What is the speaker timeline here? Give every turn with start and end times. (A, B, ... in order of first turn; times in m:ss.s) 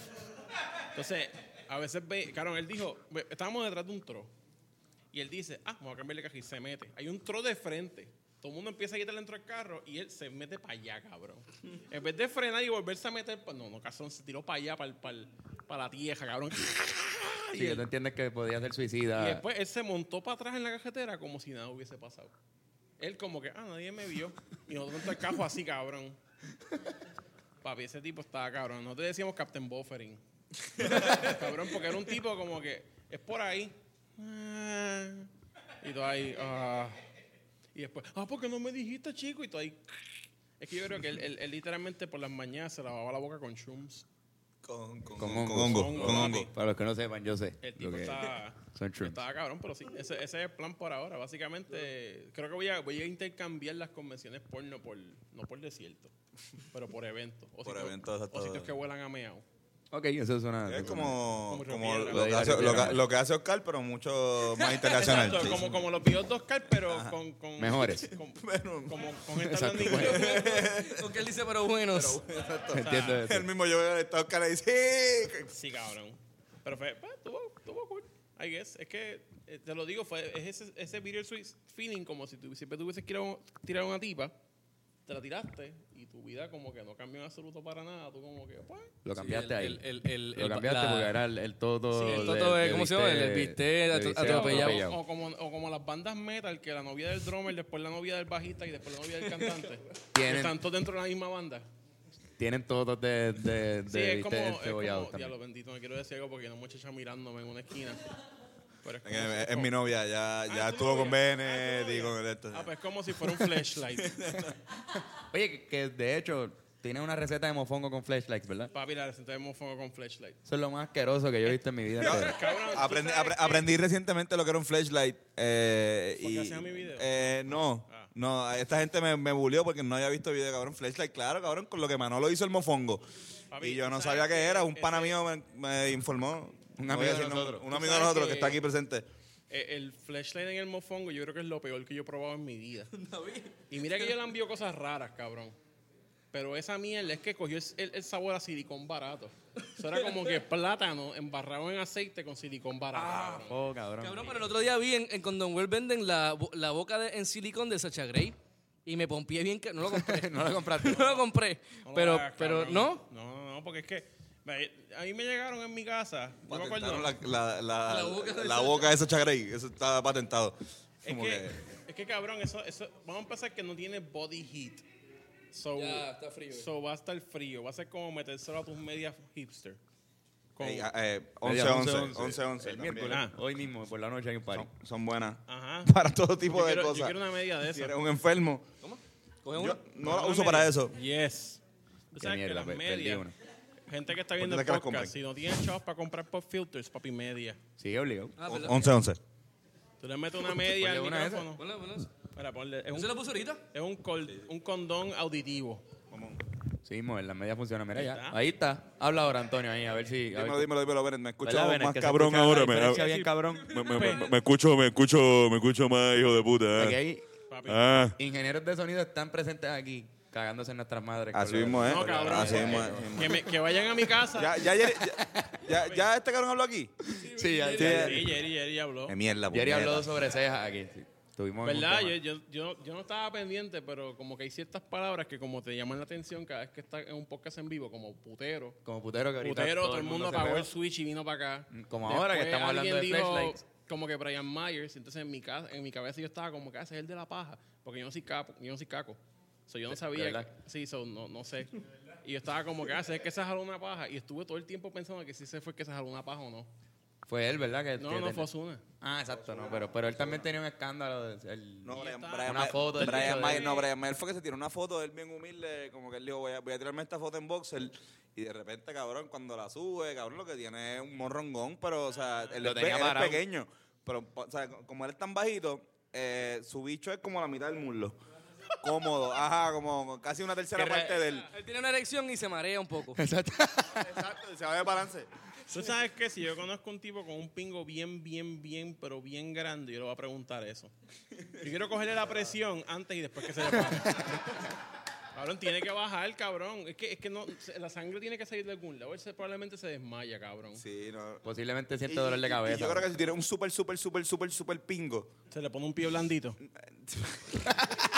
0:00.9-0:04.3 A
0:05.1-0:17.8 A
0:17.5-0:19.4 B
0:19.2-0:22.3 A
0:23.0-0:26.2 A
0:27.6-0:30.2 A
0:30.8-0:35.3 A
0:35.8-0:37.0 A
0:37.8-0:39.8 A
0:40.6-0:44.0 A
0:44.6-0:46.5 C
0:45.2-0:49.2 B
0:45.5-0:46.5 A
0:47.6-0:56.1 A
0:56.7-0:59.4 A
0:57.6-0:58.8 C
0:59.9-1:01.2 B
1:00.7-1:05.9 C
1:01.5-1:02.9 A
1:02.1-1:03.0 B
1:04.8-1:05.2 D
1:04.9-1:10.5 A
1:06.9-1:07.2 C
1:07.6-1:08.1 B
1:08.4-1:09.1 C
1:09.4-1:10.3 B
1:09.7-1:11.1 C
1:10.0-1:12.2 D
1:11.9-1:15.5 C
1:12.7-1:13.5 B
1:12.8-1:13.2 A
1:15.5-1:24.3 A
1:25.1-1:28.9 A
1:29.0-1:29.8 B
1:29.1-1:31.2 D
1:30.3-1:35.0 B
1:31.9-1:32.4 A
1:32.0-1:34.9 D
1:34.2-1:41.7 A
1:40.1-1:40.6 B
1:42.4-1:45.3 B
1:43.9-1:48.0 A
1:48.8-1:49.7 A
1:49.0-1:54.5 C
1:50.5-1:54.3 A
1:55.3-1:58.7 B
1:58.7-2:00.4 A
2:00.5-2:02.4 B
2:02.0-2:03.7 A
2:02.0-2:13.1 C
2:06.2-2:08.1 A
2:13.5-2:15.2 A
2:13.6-2:19.1 C
2:16.8-2:17.7 B
2:17.6-2:18.6 A
2:19.5-2:22.9 A
2:23.0-2:24.1 D
2:23.7-2:25.6 A
2:26.3-2:33.6 A
2:29.9-2:30.4 D
2:33.0-2:34.4 B
2:33.0-2:33.3 D
2:34.0-2:43.0 D
2:39.9-2:41.2 B
2:41.8-2:47.1 A
2:46.5-2:51.6 C
2:47.9-2:49.0 D
2:51.0-2:54.8 A
2:55.5-2:59.8 A
2:55.8-2:56.7 D
3:00.6-3:00.9 A
3:00.6-3:03.3 C
3:01.4-3:04.7 B
3:03.1-3:03.4 A
3:04.5-3:08.7 C
3:05.5-3:05.9 A
3:06.5-3:08.0 A
3:08.8-3:09.9 D
3:09.5-3:11.0 C
3:10.0-3:11.6 A
3:12.1-3:13.3 A
3:12.2-3:13.3 B
3:13.9-3:17.6 A
3:14.4-3:15.1 C
3:17.8-3:18.4 B
3:18.4-3:18.9 D
3:18.4-3:19.2 C
3:20.0-3:21.6 A
3:20.6-3:21.5 B
3:21.6-3:22.2 D
3:22.3-3:23.2 A
3:22.9-3:23.6 D
3:23.7-3:25.8 A
3:26.1-3:26.4 C
3:26.8-3:30.8 B
3:27.9-3:28.4 A
3:30.3-3:33.2 C
3:31.4-3:34.0 B
3:33.7-3:35.0 C
3:33.8-3:36.9 E
3:34.0-3:34.2 A
3:36.8-3:37.2 B
3:37.5-3:38.0 A
3:37.7-3:38.1 C
3:38.2-3:43.3 B
3:41.3-3:43.5 C
3:41.8-3:44.6 A
3:44.3-3:46.9 C
3:45.2-3:45.5 B
3:45.7-3:46.1 A
3:47.2-3:48.3 B
3:47.6-3:49.2 A
3:47.8-3:48.4 C
3:49.1-3:50.2 C
3:49.5-3:52.2 B
3:51.6-3:58.8 A
3:58.8-4:00.7 B
3:59.4-4:11.7 A
4:01.7-4:03.6 B
4:09.9-4:10.5 B
4:12.2-4:16.7 A
4:17.3-4:18.5 B
4:18.0-4:18.8 A
4:19.0-4:23.7 B
4:19.3-4:20.5 C
4:21.8-4:38.2 C
4:21.9-4:23.9 A
4:32.2-4:32.6 A
4:32.6-4:33.4 B
4:38.8-4:41.5 C
4:40.8-4:41.2 B
4:41.4-4:43.2 D
4:43.2-4:44.0 B
4:44.0-4:45.3 C
4:45.7-4:50.9 A
4:51.6-4:54.4 A
4:52.2-4:52.5 C
4:55.3-5:00.8 A
5:00.7-5:01.4 C
5:01.4-5:03.1 B
5:02.1-5:05.3 C
5:05.5-5:06.6 A
5:06.8-5:07.6 C